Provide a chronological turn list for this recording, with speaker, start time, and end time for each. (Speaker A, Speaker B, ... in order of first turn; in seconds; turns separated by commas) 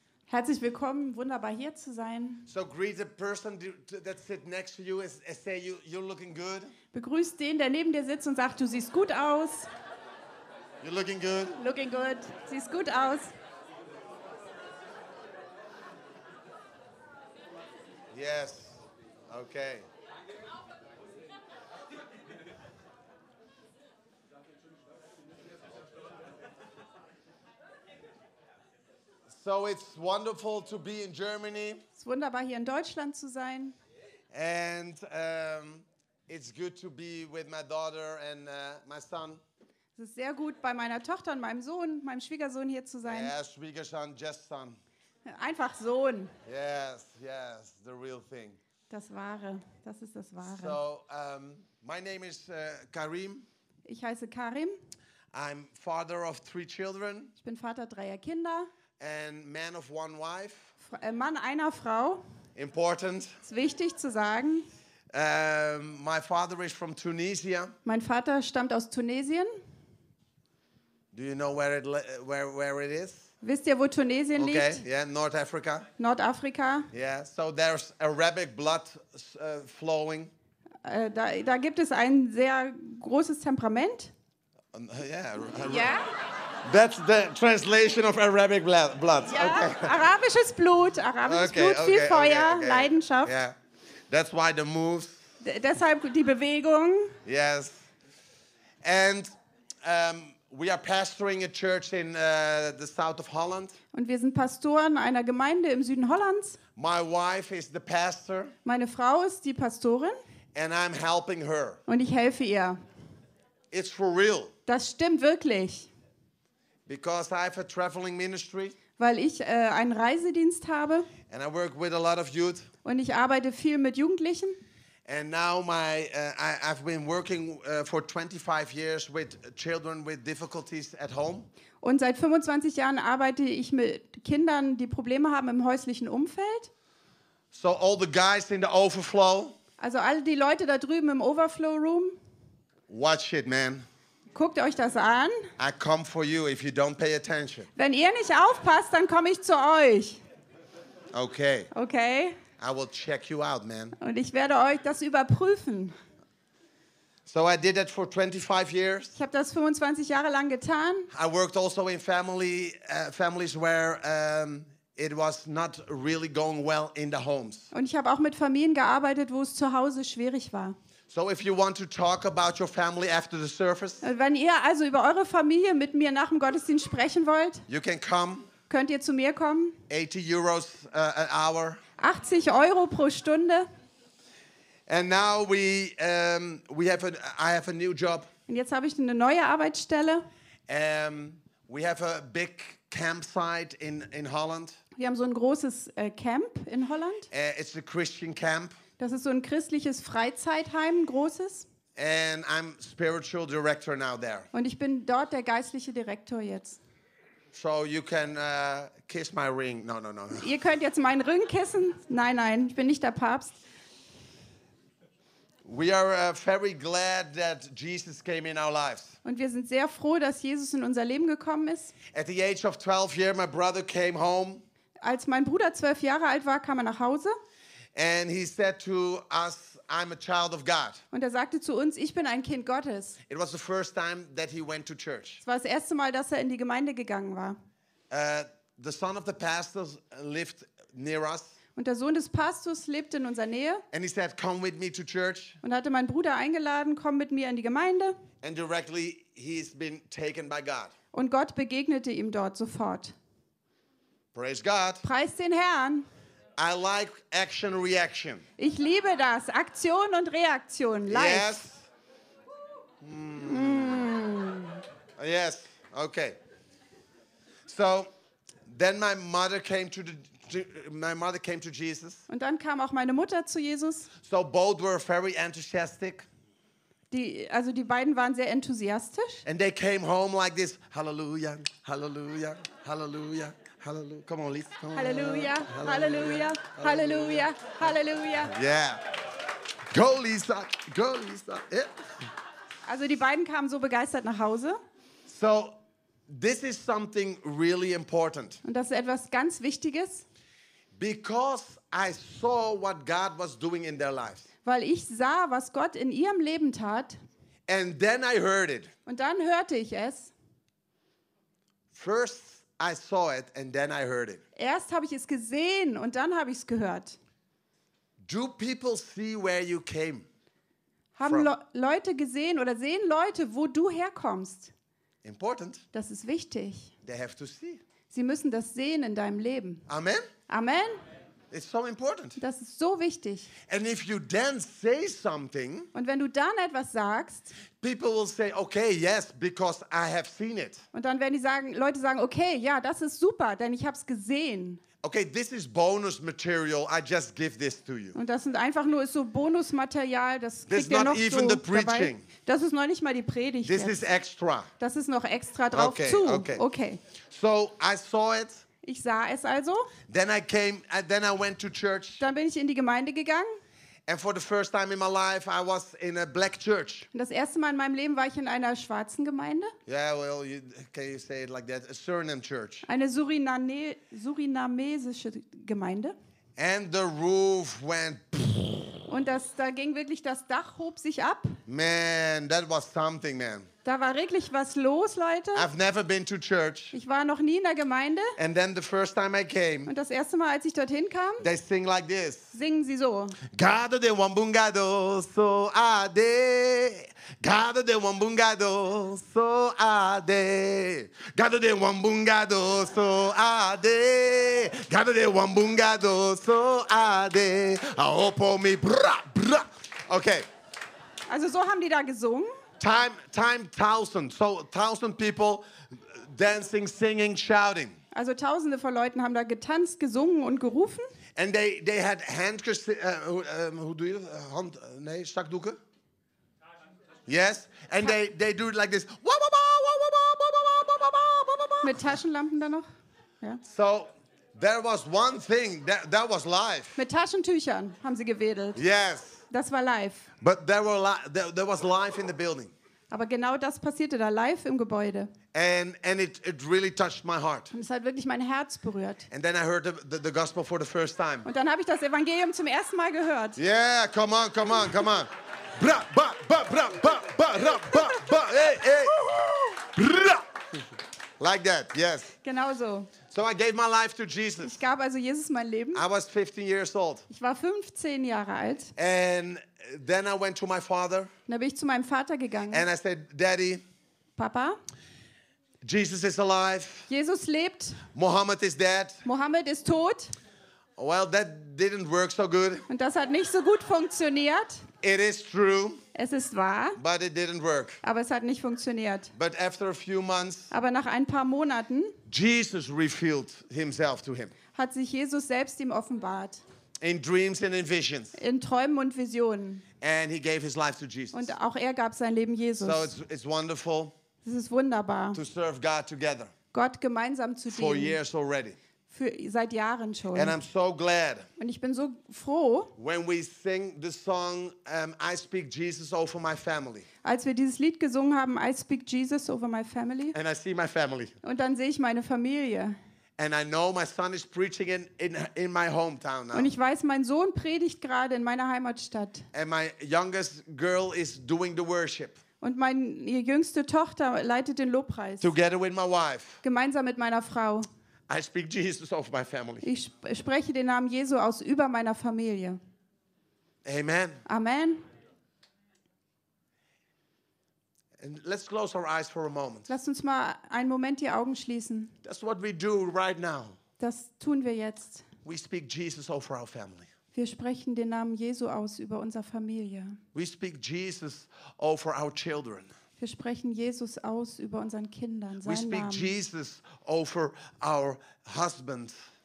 Speaker A: 0.3-2.5, Speaker B: 2.5-6.7, Speaker A: 6.9-9.7, Speaker B: 10.8-11.6, Speaker A: 11.6-13.3, Speaker B: 18.1-19.9, Speaker B: 29.3-31.8, Speaker A: 32.0-33.8, Speaker B: 34.3-39.4, Speaker A: 40.0-43.3, Speaker B: 43.0-44.8, Speaker A: 45.2-46.3, Speaker B: 46.5-48.6, Speaker A: 48.9-50.8, Speaker B: 50.4-53.5, Speaker A: 53.9-54.8, Speaker B: 55.3-57.3, Speaker A: 57.4-58.7, Speaker B: 59.0-60.7, Speaker A: 60.8-62.2, Speaker B: 62.6-63.4, Speaker A: 63.4-64.7, Speaker B: 65.1-67.8, Speaker A: 67.8-69.5, Speaker B: 71.1-73.3, Speaker A: 73.4-74.8, Speaker B: 74.4-75.9, Speaker A: 76.0-76.9, Speaker B: 76.9-80.3, Speaker A: 80.8-84.1, Speaker B: 84.7-86.0, Speaker A: 85.7-86.1, Speaker B: 86.7-90.0, Speaker A: 89.3-93.3, Speaker B: 91.2-93.5, Speaker B: 94.1-95.2, Speaker A: 95.4-97.2, Speaker B: 97.2-97.9, Speaker B: 98.8-99.3, Speaker B: 99.8-103.8, Speaker A: 103.9-106.6, Speaker B: 106.8-108.5, Speaker A: 108.7-110.2, Speaker B: 110.5-111.8, Speaker A: 111.9-112.8, Speaker B: 113.7-114.5, Speaker A: 114.7-115.9, Speaker B: 116.9-118.8, Speaker A: 119.0-121.1, Speaker B: 121.3-122.7, Speaker A: 122.8-124.6, Speaker B: 125.0-131.5, Speaker A: 131.8-136.7, Speaker B: 137.5-139.6, Speaker A: 139.8-142.2, Speaker B: 142.9-143.8, Speaker A: 144.3-145.5, Speaker B: 145.6-147.7, Speaker A: 147.8-150.2, Speaker B: 151.1-151.7, Speaker A: 151.7-152.4, Speaker B: 152.6-154.0, Speaker A: 154.0-156.0, Speaker B: 157.3-159.2, Speaker A: 159.2-161.1, Speaker B: 161.1-167.7, Speaker A: 167.7-170.8, Speaker B: 171.1-174.1, Speaker A: 174.0-177.7, Speaker B: 177.7-178.5, Speaker A: 178.7-179.8, Speaker B: 179.9-181.8, Speaker A: 182.0-183.7, Speaker B: 184.9-188.3, Speaker A: 188.5-190.3, Speaker B: 190.7-194.8, Speaker A: 195.0-197.3, Speaker B: 197.3-198.8, Speaker A: 199.0-201.7, Speaker B: 202.0-204.5, Speaker A: 204.5-206.8, Speaker B: 207.5-210.5, Speaker A: 210.4-213.6, Speaker B: 215.7-219.2, Speaker A: 219.2-221.9, Speaker B: 222.1-224.6, Speaker A: 225.0-227.3, Speaker B: 227.9-231.0, Speaker A: 231.1-233.2, Speaker B: 233.3-235.4, Speaker A: 235.4-237.6, Speaker B: 238.1-241.6, Speaker A: 241.8-243.8, Speaker B: 243.9-245.6, Speaker A: 245.6-248.2, Speaker B: 248.4-250.9, Speaker A: 251.1-253.2, Speaker B: 254.3-255.0, Speaker A: 255.0-256.1, Speaker B: 256.6-258.4, Speaker A: 258.6-261.6, Speaker B: 261.1-261.9, Speaker B: 263.0-264.1, Speaker A: 263.4-264.8, Speaker B: 265.2-266.4, Speaker B: 267.7-268.1, Speaker B: 268.7-272.3, Speaker A: 272.3-274.1, Speaker B: 274.2-276.3, Speaker A: 277.1-279.4, Speaker B: 279.4-287.5, Speaker A: 284.9-288.5, Speaker B: 288.4-289.0, Speaker B: 289.9-292.0, Speaker A: 292.9-294.8, Speaker B: 295.3-295.8, Speaker B: 296.3-298.6, Speaker A: 298.6-300.2, Speaker B: 301.0-304.5, Speaker A: 304.6-307.2, Speaker B: 307.7-308.9, Speaker A: 309.1-310.3, Speaker B: 311.9-314.4, Speaker A: 314.6-317.2, Speaker B: 318.2-320.3, Speaker A: 321.1-324.7, Speaker B: 321.3-321.5, Speaker B: 325.2-325.8, Speaker A: 325.9-326.9, Speaker B: 327.0-327.8, Speaker A: 328.1-329.9, Speaker B: 329.9-330.3, Speaker A: 330.5-331.0, Speaker B: 331.5-332.4, Speaker A: 332.4-333.5, Speaker B: 333.7-335.9, Speaker A: 335.9-337.6, Speaker B: 337.8-340.8, Speaker A: 340.9-344.8, Speaker B: 345.0-348.2, Speaker A: 348.1-354.0, Speaker B: 350.7-352.3, Speaker B: 353.6-354.7, Speaker A: 354.8-357.0, Speaker B: 355.7-356.6, Speaker B: 357.3-358.6, Speaker A: 358.8-359.9, Speaker B: 360.1-362.2, Speaker A: 362.2-363.5, Speaker B: 364.1-367.1, Speaker A: 367.1-369.7, Speaker B: 369.9-372.9, Speaker A: 372.9-376.1, Speaker B: 376.6-379.0, Speaker A: 379.1-381.6, Speaker B: 381.7-383.7, Speaker A: 383.9-385.7, Speaker B: 385.5-386.9, Speaker A: 386.9-388.4, Speaker B: 388.4-389.9, Speaker A: 389.9-391.5, Speaker B: 391.4-392.5, Speaker A: 392.5-393.4, Speaker B: 393.5-410.5, Speaker A: 411.3-412.6, Speaker B: 412.8-418.0, Speaker A: 418.1-421.1, Speaker B: 421.4-425.8, Speaker B: 427.3-432.1, Speaker A: 431.8-432.9, Speaker B: 433.6-437.0, Speaker A: 437.0-438.8, Speaker B: 438.8-439.4, Speaker A: 439.5-440.3, Speaker B: 440.4-442.7, Speaker A: 443.1-445.3, Speaker B: 445.5-447.7, Speaker A: 447.7-449.3, Speaker B: 449.3-451.5, Speaker A: 451.4-453.6, Speaker B: 453.6-459.3, Speaker A: 457.9-459.8, Speaker B: 459.8-460.5, Speaker B: 461.4-462.4, Speaker A: 462.4-463.1, Speaker B: 463.3-464.8, Speaker A: 464.6-466.0, Speaker B: 465.9-467.3, Speaker A: 467.3-468.9, Speaker B: 469.0-471.3, Speaker A: 471.5-472.8, Speaker B: 472.7-473.8, Speaker A: 474.4-474.8, Speaker B: 475.8-477.1, Speaker A: 477.1-478.0, Speaker B: 478.1-479.2, Speaker A: 479.2-480.3, Speaker B: 481.0-482.9, Speaker A: 482.9-484.8, Speaker B: 485.0-486.0, Speaker A: 486.1-487.0, Speaker B: 487.0-488.0, Speaker A: 488.0-489.3, Speaker B: 489.3-490.7, Speaker A: 490.7-492.2, Speaker B: 492.3-494.5, Speaker A: 494.7-496.6, Speaker B: 497.0-498.4, Speaker A: 498.4-499.8, Speaker B: 500.0-501.5, Speaker A: 501.3-503.1, Speaker B: 502.8-504.1, Speaker A: 504.4-505.4, Speaker B: 505.3-506.5, Speaker A: 506.7-508.2, Speaker B: 507.7-508.8, Speaker A: 509.1-510.6, Speaker B: 510.3-511.5, Speaker A: 511.6-512.9, Speaker B: 513.0-517.1, Speaker A: 517.2-520.4, Speaker B: 520.3-521.4, Speaker A: 521.4-523.0, Speaker B: 523.4-526.7, Speaker A: 526.5-529.5, Speaker B: 529.5-532.4, Speaker A: 532.6-535.5, Speaker B: 535.4-536.6, Speaker A: 536.6-537.9, Speaker B: 538.3-539.9, Speaker A: 539.8-542.8, Speaker B: 543.9-544.4, Speaker A: 544.5-545.0, Speaker B: 548.2-549.9, Speaker A: 549.9-552.1, Speaker B: 552.2-553.8, Speaker A: 554.0-555.3, Speaker B: 555.4-557.1, Speaker A: 557.3-560.2, Speaker B: 560.3-562.9, Speaker A: 563.2-566.3, Speaker B: 565.6-569.2